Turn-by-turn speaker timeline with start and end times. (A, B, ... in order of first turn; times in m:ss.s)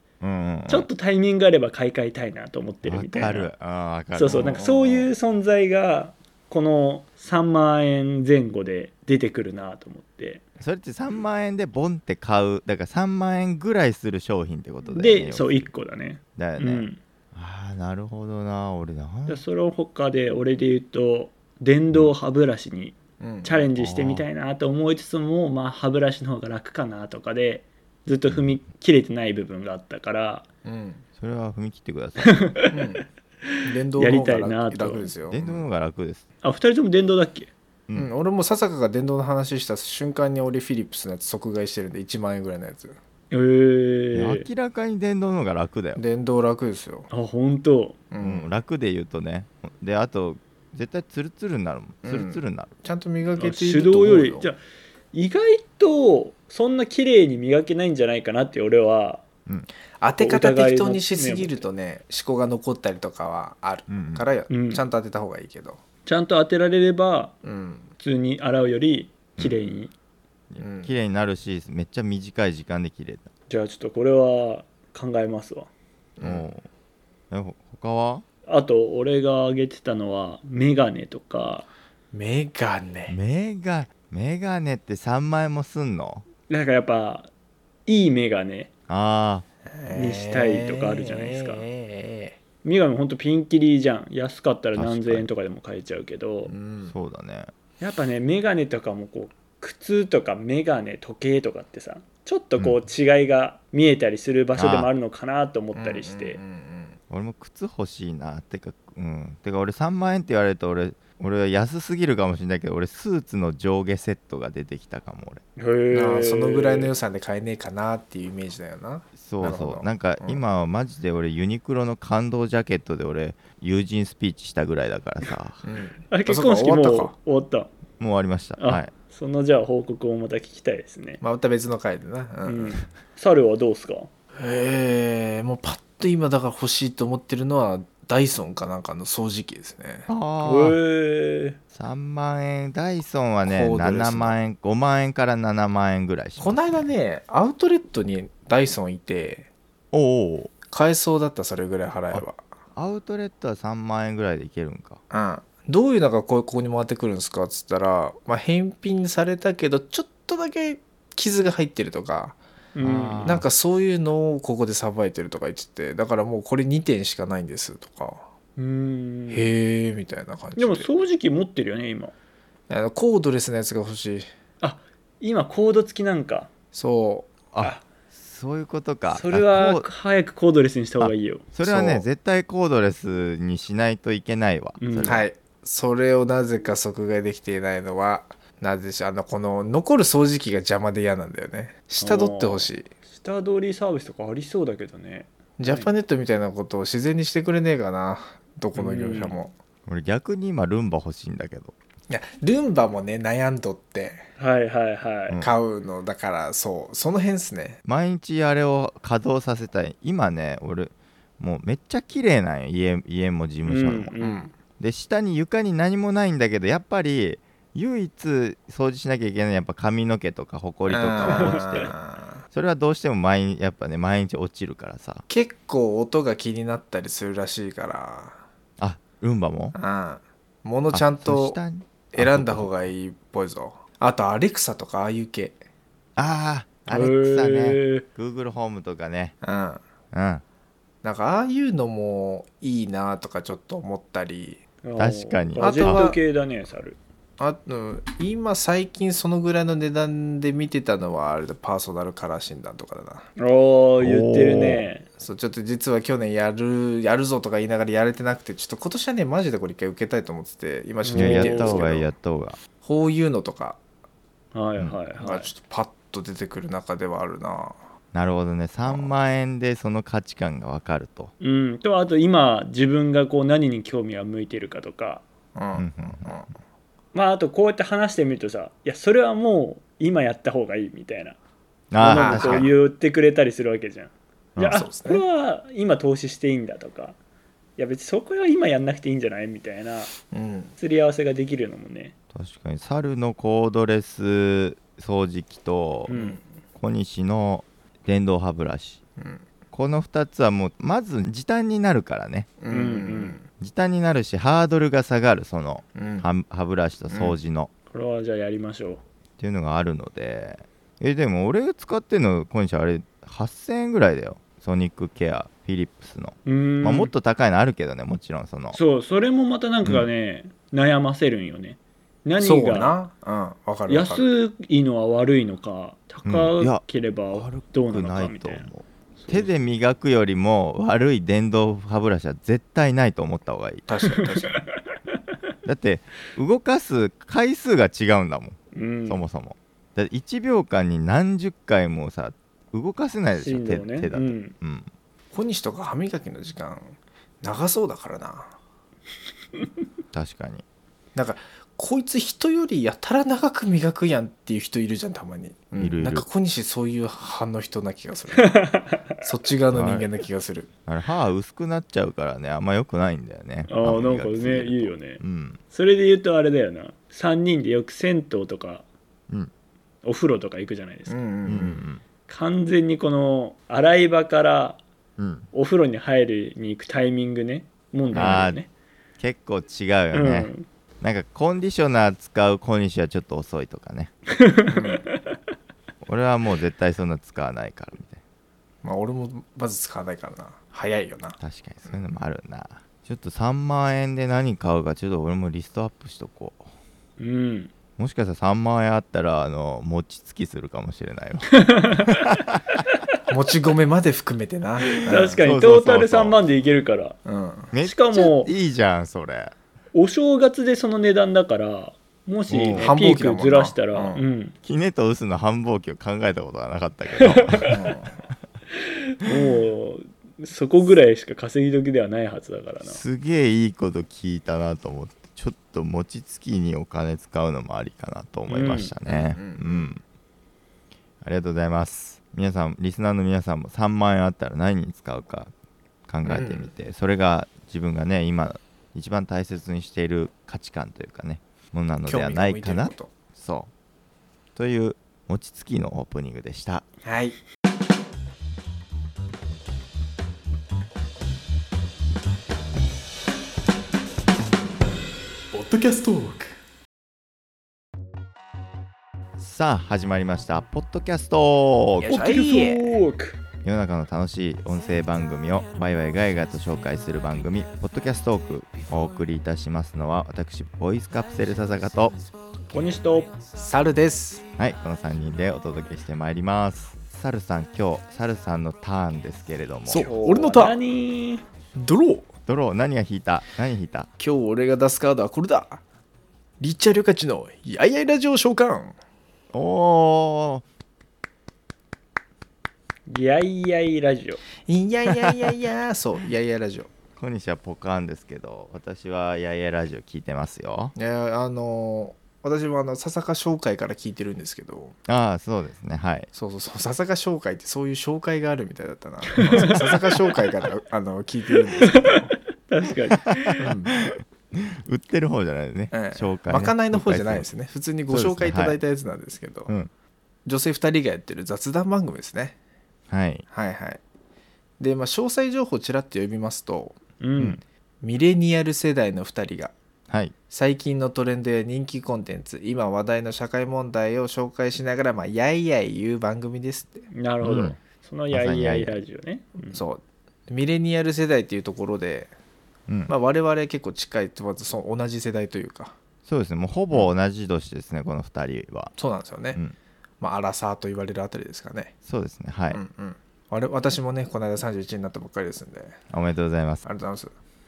0:00.2-0:00.9 A
0:00.7-0:03.5 B
0:02.8-0:04.6 A
0:04.2-0:10.4 B
0:04.4-0:05.1 C
0:10.6-0:15.7 A
0:14.8-0:17.0 B
0:16.4-0:19.4 A
0:19.3-0:30.5 B
0:23.2-0:23.7 C
0:23.8-0:24.2 A
0:30.6-0:31.0 C
0:31.2-0:32.4 A
0:32.2-0:35.1 B
0:32.7-0:33.0 C
0:33.6-0:35.6 C
0:35.3-0:36.2 A
0:36.4-0:37.5 B
0:38.0-0:43.0 C
0:43.3-0:44.5 B
0:44.1-0:46.0 A
0:46.0-0:47.1 C
0:47.1-0:48.0 B
0:48.1-0:48.5 C
0:48.2-0:52.8 A
0:52.0-0:54.5 C
0:53.4-0:54.6 B
0:55.1-0:59.2 B
1:00.0-1:05.8 C
1:00.2-1:01.6 B
1:03.9-1:04.3 A
1:04.5-1:04.8 B
1:06.1-1:07.4 B
1:07.4-1:07.9 C
1:08.0-1:09.9 B
1:10.5-1:13.3 A
1:10.6-1:10.9 C
1:13.5-1:15.7 B
1:16.2-1:16.5 C
1:16.2-1:16.7 A
1:17.3-1:18.2 A
1:18.5-1:21.7 B
1:22.1-1:23.2 C
1:23.1-1:26.2 A
1:26.5-1:27.3 B
1:27.9-1:28.7 B
1:28.9-1:29.5 A
1:29.8-1:32.4 C
1:29.9-1:31.6 B
1:32.6-1:36.5 B
1:34.8-1:35.3 A
1:36.5-1:37.0 C
1:36.9-1:37.5 A
1:37.8-1:46.4 B
1:44.6-1:44.9 A
1:45.7-1:47.0 C
1:47.1-1:55.4 A
1:55.6-1:56.9 B
1:55.9-2:00.4 C
1:59.2-2:05.6 A
2:05.6-2:07.1 C
2:06.1-2:07.7 B
2:08.0-2:08.9 A
2:08.6-2:11.2 B
2:11.2-2:12.8 C
2:12.4-2:14.1 B
2:14.4-2:20.1 C
2:20.1-2:20.8 A
2:20.4-2:21.6 B
2:21.7-2:26.9 A
2:23.4-2:24.4 C
2:26.4-2:29.5 C
2:29.9-2:30.5 A
2:30.7-2:32.4 C
2:32.8-2:35.0 A
2:35.1-2:42.4 C
2:42.8-2:43.4 B
2:42.8-2:43.5 A
2:43.2-2:48.3 C
2:48.6-2:49.5 B
2:49.3-2:50.9 C
2:50.6-2:52.1 B
2:52.7-2:54.3 C
2:54.6-2:56.5 B
2:56.7-2:57.3 C
2:57.5-2:59.9 A
2:59.1-3:01.5 B
3:01.0-3:05.3 A
3:01.6-3:02.1 C
3:04.8-3:05.2 B
3:05.0-3:12.9 C
3:12.0-3:15.9 B
3:15.6-3:19.5 C
3:18.8-3:19.4 B
3:19.9-3:21.7 A
3:22.1-3:24.2 C
3:24.4-3:25.4 B
3:25.4-3:27.8 C
3:27.8-3:34.1 A
3:33.7-3:34.5 B
3:34.2-3:34.5 C
3:34.8-3:42.0 A
3:40.9-3:42.4 C
3:41.3-3:41.8 B
3:42.5-3:45.2 A
3:45.3-3:48.4 C
3:48.8-3:49.8 A
3:49.8-3:51.6 C
3:50.9-3:52.8 A
3:52.1-3:55.6 C
3:56.2-3:59.4 A
3:56.9-3:58.0 B
3:59.4-3:59.8 C
4:00.1-4:00.4 A
4:01.0-4:04.6 C
4:04.8-4:07.0 B
4:05.0-4:06.1 A
4:05.6-4:06.2 C
4:07.4-4:13.3 C
4:13.4-4:15.1 B
4:14.0-4:14.9 A
4:15.2-4:22.1 C
4:21.0-4:21.8 B
4:21.1-4:22.6 A
4:22.8-4:23.8 C
4:24.5-4:25.5 B
4:25.2-4:27.8 C
4:28.1-4:31.3 A
4:28.9-4:29.1 C
4:31.4-4:35.2 B
4:35.6-4:36.6 C
4:35.8-4:36.4 A
4:37.1-4:41.4 B
4:41.9-4:42.7 A
4:42.0-4:47.2 B
4:42.0-4:42.8 C
4:44.6-4:44.8 A
4:44.6-4:45.2 C
4:47.8-4:50.1 B
4:50.3-4:50.8 C
4:50.8-4:52.1 B
4:52.4-4:56.1 A
4:56.1-4:56.4 B
4:56.1-4:56.4 C
4:56.8-4:59.0 A
4:59.2-4:59.4 C
4:59.7-5:02.5 A
5:02.6-5:03.4 C
5:02.7-5:03.4 B
5:03.6-5:07.7 A
5:06.0-5:06.3 C
5:07.1-5:07.4 C
5:07.9-5:09.0 B
5:09.4-5:18.8 A
5:16.5-5:17.1 B
5:18.7-5:23.0 B
5:22.4-5:24.2 C
5:23.9-5:28.7 B
5:26.2-5:33.9 A
5:29.2-5:29.5 B
5:33.9-5:34.6 C
5:34.1-5:34.6 B
5:35.6-5:44.9 A
5:38.7-5:39.2 B
5:43.3-5:44.5 B
5:45.3-5:48.6 C
5:50.1-5:50.6 A
5:51.2-5:58.6 C
5:55.8-5:56.3 A
5:58.4-5:59.2 B
5:59.2-6:00.7 C
5:59.7-6:00.1 A
6:00.9-6:05.6 A
6:03.7-6:05.2 B
6:05.7-6:08.8 B
6:10.0-6:11.2 B
6:11.1-6:11.8 C
6:11.4-6:12.0 A
6:12.3-6:14.8 B
6:15.2-6:15.5 A
6:15.5-6:18.7 B
6:18.1-6:18.6 A
6:19.2-6:24.1 A
6:20.1-6:20.7 B
6:24.4-6:25.2 B
6:24.7-6:25.0 C
6:26.0-6:28.2 A
6:28.8-6:32.0 C
6:31.4-6:36.7 A
6:37.2-6:37.7 B
6:38.0-6:42.6 A
6:41.6-6:42.3 B
6:43.3-6:45.4 C
6:44.9-6:46.4 A
6:45.0-6:47.2 B
6:47.2-6:47.7 C
6:47.7-6:49.5 A
6:47.8-6:48.5 B
6:49.9-6:54.6 B
6:52.5-6:52.9 A
6:52.8-6:54.2 C
6:54.6-6:57.7 A
6:57.2-6:57.8 B
6:57.7-6:58.2 C
6:59.2-7:03.0 B
7:02.8-7:10.0 A
7:08.5-7:08.9 B
7:09.1-7:09.9 C
7:11.2-7:15.5 A
7:16.1-7:23.7 A
7:16.2-7:16.7 C
7:22.1-7:23.1 C
7:24.6-7:26.8 A
7:27.0-7:27.4 C
7:35.5-7:36.6 C
7:39.4-7:42.1 A
7:42.0-7:43.0 C
7:42.1-7:43.4 B
7:43.6-7:52.2 A
7:52.7-7:53.3 B
7:53.6-7:54.4 C
7:54.6-8:00.1 A
7:59.9-8:00.8 C
8:00.0-8:01.4 B
8:01.8-8:02.3 C
8:02.5-8:04.1 A
8:04.2-8:05.8 C
8:06.6-8:09.0 C
8:09.5-8:10.6 A
8:13.1-8:14.4 B
8:14.7-8:16.9 C
8:17.2-8:20.9 A
8:21.0-8:25.0 C
8:25.1-8:26.3 A
8:26.3-8:32.3 C
8:29.4-8:30.0 B
8:29.4-8:29.7 A
8:31.8-8:33.6 B
8:33.1-8:37.5 A
8:33.6-8:34.0 C
8:35.9-8:39.7 C
8:38.1-8:38.8 A
8:40.4-8:42.6 C
8:43.1-8:43.5 A
8:43.5-8:44.0 C
8:44.8-8:47.0 C
8:47.2-8:47.6 B
8:48.0-8:49.7 C
8:50.1-8:50.3 A
8:50.5-8:57.1 C
8:57.1-8:59.8 B
8:57.4-8:57.8 A
8:58.3-8:59.0 A
8:59.7-9:02.3 C
9:03.1-9:06.0 C
9:06.2-9:08.9 A
9:09.0-9:09.6 C
9:10.2-9:11.9 C
9:12.0-9:12.8 A
9:12.7-9:16.0 C
9:16.1-9:16.8 A
9:16.8-9:17.3 C